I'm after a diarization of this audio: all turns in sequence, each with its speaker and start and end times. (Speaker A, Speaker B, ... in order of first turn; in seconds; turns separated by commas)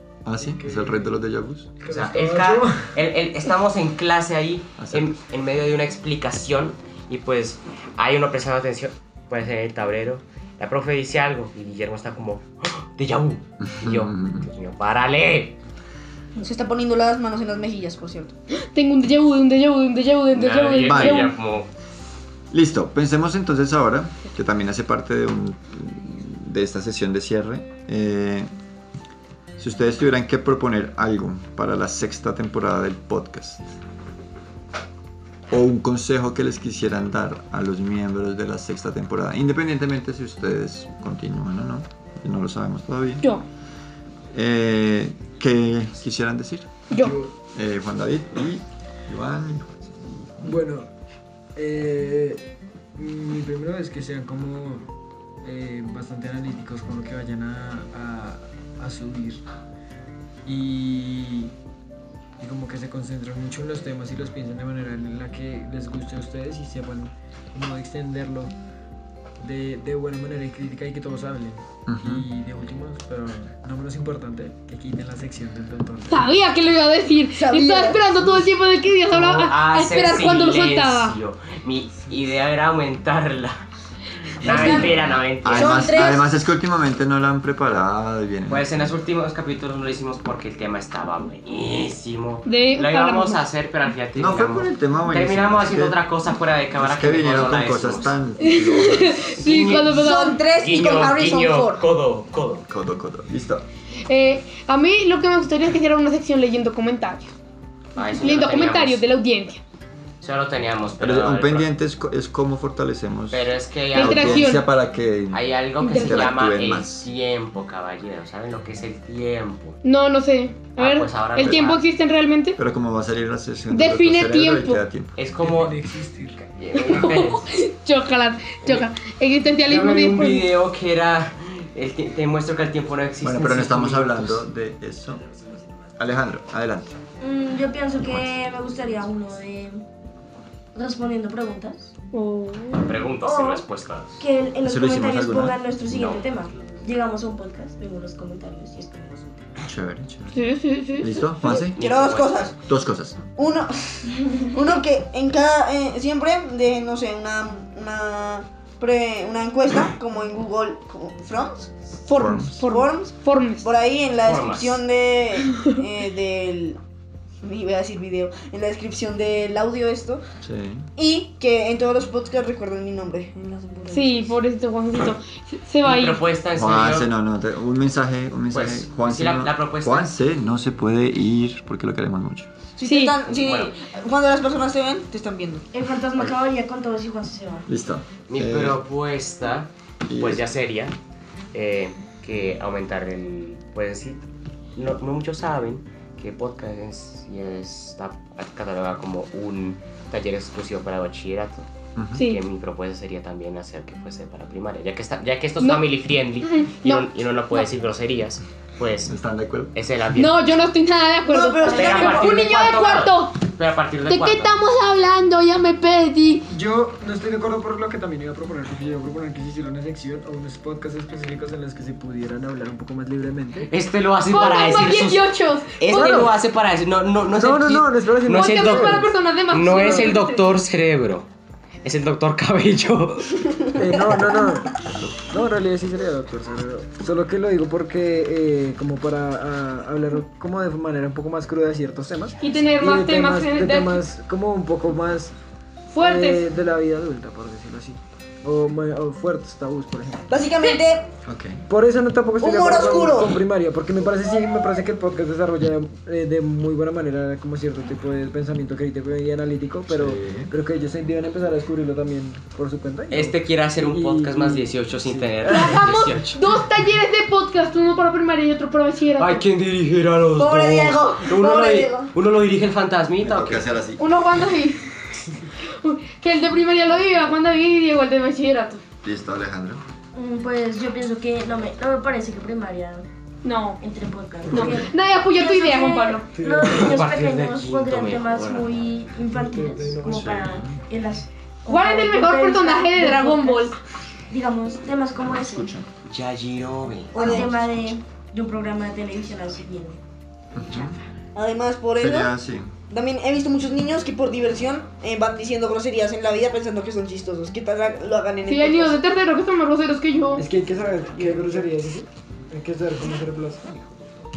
Speaker A: 0.2-1.7, Speaker B: 0.4-1.1, Speaker B: 1.8-3.0, Speaker C: 1.9-15.6, Speaker A: 4.8-5.1, Speaker A: 13.6-14.5, Speaker D: 16.4-18.3, Speaker E: 18.5-21.3, Speaker C: 20.3-21.7, Speaker A: 20.8-21.3, Speaker A: 22.5-28.5, Speaker A: 29.6-33.6, Speaker A: 35.5-43.2, Speaker A: 44.3-46.8, Speaker E: 46.9-47.2, Speaker B: 46.9-47.3, Speaker A: 47.5-50.5, Speaker B: 50.4-50.9, Speaker B: 51.5-52.4, Speaker B: 52.9-54.9, Speaker B: 55.4-59.4, Speaker B: 60.4-61.5, Speaker B: 62.4-68.5, Speaker B: 69.4-76.3, Speaker A: 71.9-72.2, Speaker E: 76.1-81.2, Speaker D: 77.3-78.0, Speaker B: 78.2-78.5, Speaker C: 79.1-83.6, Speaker C: 84.3-86.1, Speaker A: 84.4-88.7, Speaker E: 84.4-84.9, Speaker D: 85.5-86.2, Speaker C: 88.5-98.2, Speaker E: 92.5-93.4, Speaker A: 94.2-96.0, Speaker A: 96.8-99.4, Speaker E: 98.4-100.4, Speaker C: 99.4-102.7, Speaker D: 99.7-101.8, Speaker A: 102.7-103.7, Speaker E: 104.0-107.3, Speaker C: 108.0-109.0, Speaker E: 108.0-109.6, Speaker C: 110.2-111.7, Speaker A: 111.0-117.0, Speaker C: 113.3-114.6, Speaker E: 113.9-114.6, Speaker C: 115.3-119.8, Speaker E: 115.8-116.2, Speaker E: 119.8-122.6, Speaker C: 120.8-121.8, Speaker A: 121.4-121.6, Speaker A: 122.6-125.2, Speaker E: 123.7-124.8, Speaker C: 125.2-125.8, Speaker B: 125.4-126.4, Speaker C: 126.4-127.5, Speaker E: 126.7-130.5, Speaker C: 129.7-134.4, Speaker A: 133.2-135.2, Speaker A: 136.0-137.0, Speaker F: 137.2-139.8, Speaker A: 138.0-138.3, Speaker F: 140.7-141.9, Speaker E: 142.1-142.9, Speaker C: 142.8-144.3, Speaker F: 143.2-143.7, Speaker F: 144.2-149.5, Speaker A: 144.6-145.6, Speaker C: 145.9-146.2, Speaker A: 149.6-150.4, Speaker E: 150.3-151.2, Speaker A: 151.0-151.8, Speaker D: 151.4-152.5, Speaker C: 151.7-152.5, Speaker A: 152.6-153.2, Speaker D: 153.3-166.8, Speaker E: 162.1-163.7, Speaker A: 162.1-162.6, Speaker C: 164.2-164.8, Speaker D: 167.4-170.2, Speaker A: 170.4-170.9, Speaker D: 170.9-174.0, Speaker E: 173.9-176.2, Speaker F: 174.0-174.3, Speaker C: 175.8-177.1, Speaker A: 176.5-182.5, Speaker C: 178.5-180.1, Speaker D: 182.8-185.7, Speaker E: 182.8-183.2, Speaker C: 183.2-183.7, Speaker F: 185.7-187.7, Speaker A: 187.7-188.8, Speaker C: 188.3-190.9, Speaker A: 190.1-190.4, Speaker C: 191.5-209.2, Speaker A: 201.9-202.2, Speaker E: 202.2-202.4, Speaker E: 206.4-207.1, Speaker A: 209.0-209.7, Speaker C: 209.7-210.5, Speaker E: 210.1-213.4, Speaker D: 211.3-212.4, Speaker C: 211.7-214.6, Speaker E: 214.1-216.5, Speaker B: 216.5-223.7, Speaker C: 223.7-231.3, Speaker E: 224.3-226.2, Speaker B: 225.9-226.3, Speaker B: 227.3-230.2, Speaker E: 228.3-230.5, Speaker C: 231.8-233.6, Speaker B: 233.8-245.3, Speaker A: 234.8-235.2, Speaker E: 242.4-244.0, Speaker E: 245.9-246.4, Speaker B: 246.0-250.3, Speaker D: 250.3-251.1, Speaker A: 251.2-251.6, Speaker B: 251.7-265.7, Speaker D: 252.4-253.4, Speaker A: 259.9-260.5, Speaker C: 263.1-266.4, Speaker E: 265.5-269.4, Speaker C: 269.2-273.6, Speaker D: 270.4-272.1, Speaker A: 273.2-274.0, Speaker E: 274.0-274.9, Speaker E: 275.6-278.8, Speaker A: 279.0-279.8, Speaker F: 280.1-283.1, Speaker E: 283.4-283.8, Speaker F: 283.8-293.8, Speaker E: 284.5-286.3, Speaker B: 286.3-287.3, Speaker C: 286.6-288.9, Speaker B: 289.2-290.4, Speaker A: 290.0-290.8, Speaker E: 291.7-293.8, Speaker F: 294.3-295.7, Speaker A: 295.2-295.9, Speaker C: 296.1-297.5, Speaker D: 297.1-297.5, Speaker F: 297.1-300.0, Speaker A: 297.2-297.6, Speaker A: 300.5-301.0, Speaker D: 301.3-302.3, Speaker A: 302.0-302.7, Speaker D: 302.9-309.0, Speaker E: 308.4-310.5, Speaker B: 310.4-313.9